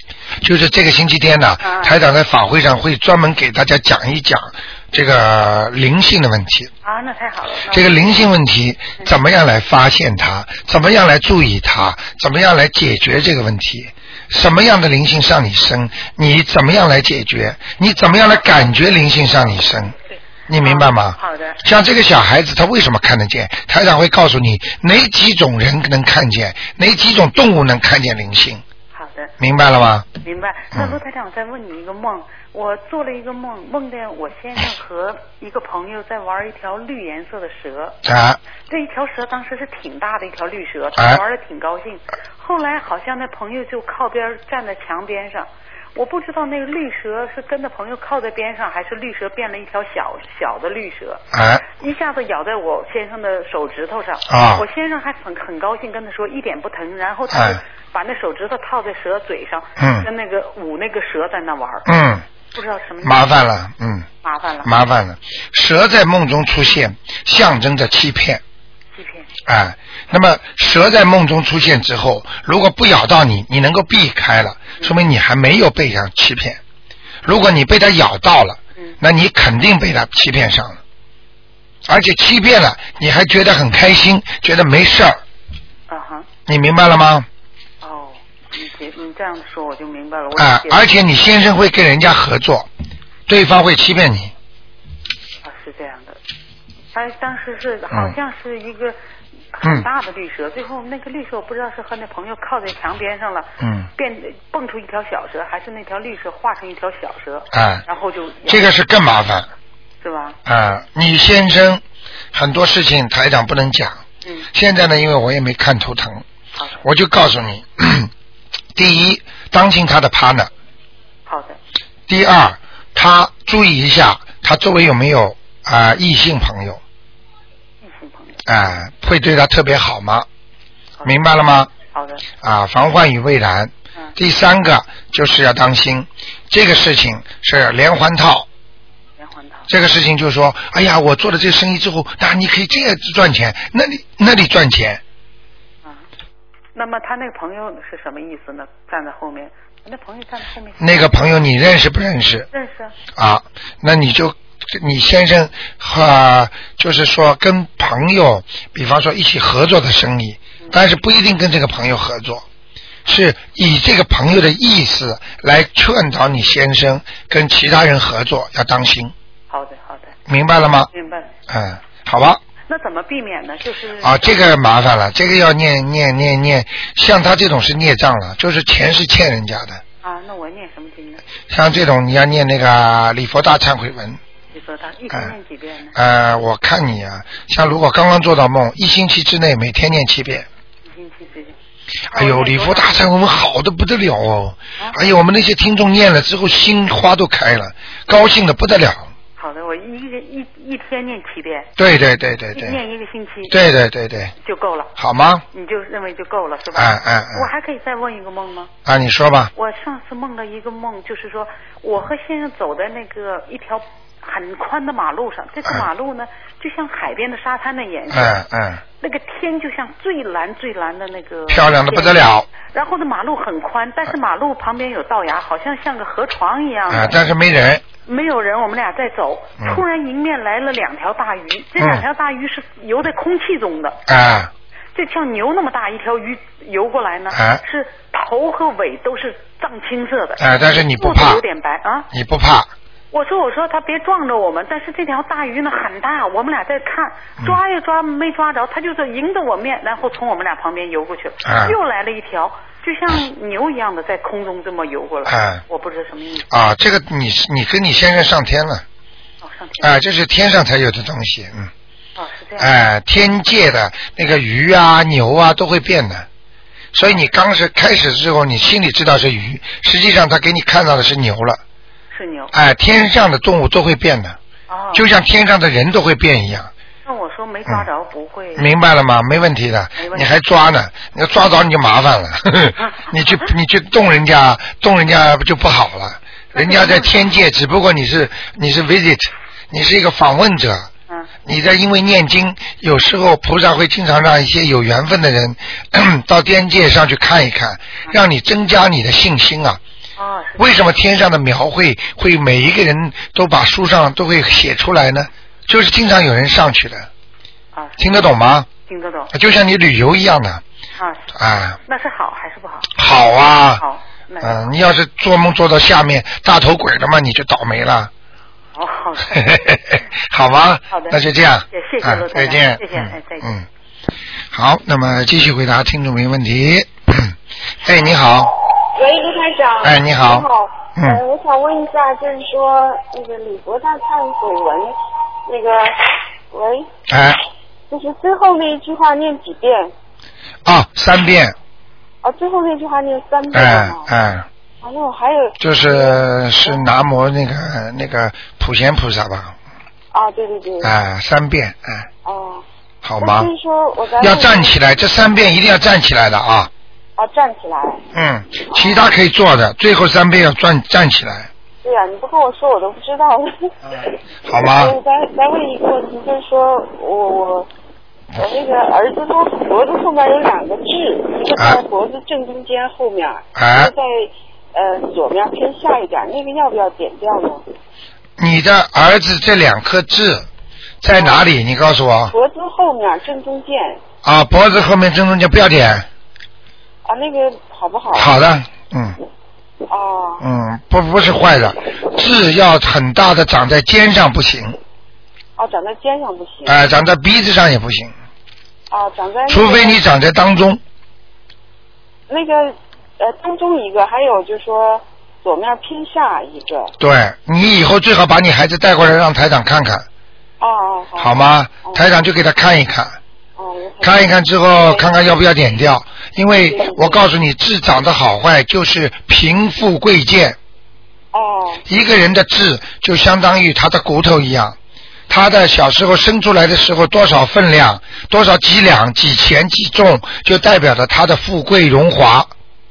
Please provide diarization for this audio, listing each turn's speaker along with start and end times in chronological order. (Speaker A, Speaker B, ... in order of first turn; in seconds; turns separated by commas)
Speaker A: 0.4-6.7, Speaker B: 1.6-2.0, Speaker B: 6.8-8.2, Speaker A: 7.7-19.9, Speaker B: 20.1-21.6, Speaker A: 20.5-28.6, Speaker B: 28.9-29.3, Speaker A: 29.4-30.1, Speaker B: 30.2-38.0, Speaker A: 38.0-38.4, Speaker B: 38.7-61.9, Speaker A: 51.3-51.6, Speaker A: 54.3-54.6, Speaker A: 57.3-57.6, Speaker A: 59.8-60.1, Speaker A: 61.9-62.2, Speaker B: 62.5-63.3, Speaker A: 63.0-64.1, Speaker B: 64.2-64.7, Speaker A: 64.6-68.4, Speaker B: 69.0-69.3, Speaker A: 69.5-76.6, Speaker A: 77.2-80.8, Speaker A: 81.9-85.2, Speaker B: 85.9-86.3, Speaker A: 86.5-87.3, Speaker B: 87.8-91.0, Speaker A: 90.3-92.7, Speaker A: 93.3-94.3, Speaker B: 95.4-96.2, Speaker B: 96.9-99.0, Speaker B: 99.5-108.8, Speaker A: 103.6-103.9, Speaker A: 107.5-107.8, Speaker A: 108.5-109.5, Speaker B: 110.0-110.4, Speaker A: 110.5-111.8, Speaker A: 112.3-114.0, Speaker A: 114.5-116.2, Speaker B: 116.6-116.8, Speaker A: 116.8-118.1, Speaker A: 118.8-120.5, Speaker B: 121.3-121.6, Speaker A: 122.1-126.8, Speaker B: 127.8-128.4, Speaker A: 128.5-130.3, Speaker A: 131.1-131.7, Speaker B: 131.9-132.2, Speaker A: 132.4-138.5, Speaker B: 139.2-139.7, Speaker A: 139.7-145.0, Speaker B: 146.8-151.4, Speaker A: 150.8-152.5, Speaker B: 152.5-153.0, Speaker A: 153.2-162.4, Speaker B: 160.6-160.9, Speaker A: 163.1-169.1, Speaker B: 169.5-170.2, Speaker A: 170.3-170.9, Speaker B: 170.9-171.3, Speaker A: 171.5-172.4, Speaker B: 172.7-174.5, Speaker A: 174.0-179.8, Speaker B: 180.0-181.2, Speaker A: 181.5-184.2, Speaker B: 184.5-186.0, Speaker A: 185.9-190.5, Speaker B: 190.8-191.6, Speaker A: 192.1-199.1, Speaker B: 192.1-193.0, Speaker B: 199.4-201.7, Speaker A: 201.8-202.8, Speaker B: 202.5-203.6, Speaker A: 203.5-204.3, Speaker B: 204.4-204.9, Speaker A: 205.0-205.4, Speaker B: 205.5-208.7, Speaker A: 206.8-207.5, Speaker A: 208.9-209.5, Speaker B: 209.6-218.4, Speaker A: 218.1-218.8, Speaker B: 219.0-227.2, Speaker A: 221.5-222.5, Speaker A: 226.9-227.8, Speaker B: 228.1-234.0, Speaker A: 234.1-234.5, Speaker B: 234.9-242.1, Speaker A: 237.3-237.6, Speaker A: 240.4-241.4, Speaker A: 242.1-242.7, Speaker B: 243.1-256.5, Speaker A: 251.4-251.8, Speaker A: 255.3-255.6, Speaker A: 256.5-258.8, Speaker B: 259.4-259.9, Speaker A: 259.8-261.7, Speaker B: 262.2-262.7, Speaker A: 262.6-266.3, Speaker A: 266.9-271.6, Speaker B: 272.1-272.5, Speaker A: 272.5-274.4, Speaker B: 274.7-275.1, Speaker A: 274.9-276.7, Speaker B: 277.1-278.7, Speaker A: 278.6-290.9, Speaker B: 280.0-280.3, Speaker B: 282.8-283.5, Speaker B: 286.5-287.3, Speaker A: 291.5-299.8, Speaker B: 300.2-300.9, Speaker A: 300.6-307.1, Speaker B: 307.7-308.0, Speaker A: 308.0-308.7, Speaker B: 308.9-309.3, Speaker A: 309.3-310.6, Speaker B: 311.0-311.3, Speaker A: 311.4-311.8, Speaker B: 311.9-312.9, Speaker A: 312.9-313.8, Speaker B: 313.8-314.7, Speaker A: 314.4-318.1, Speaker B: 318.8-319.7, Speaker A: 319.4-323.7, Speaker B: 320.9-321.2, Speaker B: 321.7-323.5, Speaker A: 324.5-328.6, Speaker C: 328.9-334.9, Speaker A: 329.8-331.2, Speaker C: 335.5-336.9, Speaker A: 337.1-337.4, Speaker C: 337.9-339.9, Speaker A: 340.7-341.6, Speaker C: 342.2-344.1, Speaker A: 343.5-344.5, Speaker C: 344.8-346.9, Speaker A: 345.6-349.6, Speaker C: 350.1-350.9, Speaker A: 350.8-352.1, Speaker C: 352.2-352.6, Speaker A: 353.0-353.5, Speaker C: 353.2-354.8, Speaker A: 354.2-356.7, Speaker C: 357.2-358.0, Speaker A: 358.1-361.5, Speaker C: 358.7-359.1, Speaker C: 361.8-367.7, Speaker A: 363.9-364.9, Speaker C: 368.4-377.6, Speaker A: 371.6-371.8, Speaker A: 373.6-373.9, Speaker A: 378.4-380.5, Speaker A: 381.0-382.4, Speaker C: 381.1-381.4, Speaker C: 382.3-384.0, Speaker A: 384.2-386.1, Speaker C: 387.1-388.3, Speaker A: 388.1-389.2, Speaker C: 389.9-390.4, Speaker A: 390.4-394.8, Speaker C: 395.6-396.8, Speaker A: 396.7-398.1, Speaker C: 398.9-400.0, Speaker A: 399.5-400.8, Speaker C: 402.3-406.9, Speaker A: 407.0-410.1, Speaker C: 410.6-412.1, Speaker A: 411.2-413.2, Speaker C: 413.6-415.1, Speaker A: 414.0-420.6, Speaker C: 416.5-417.2, Speaker C: 421.3-421.9, Speaker A: 421.9-424.8, Speaker A: 425.3-432.5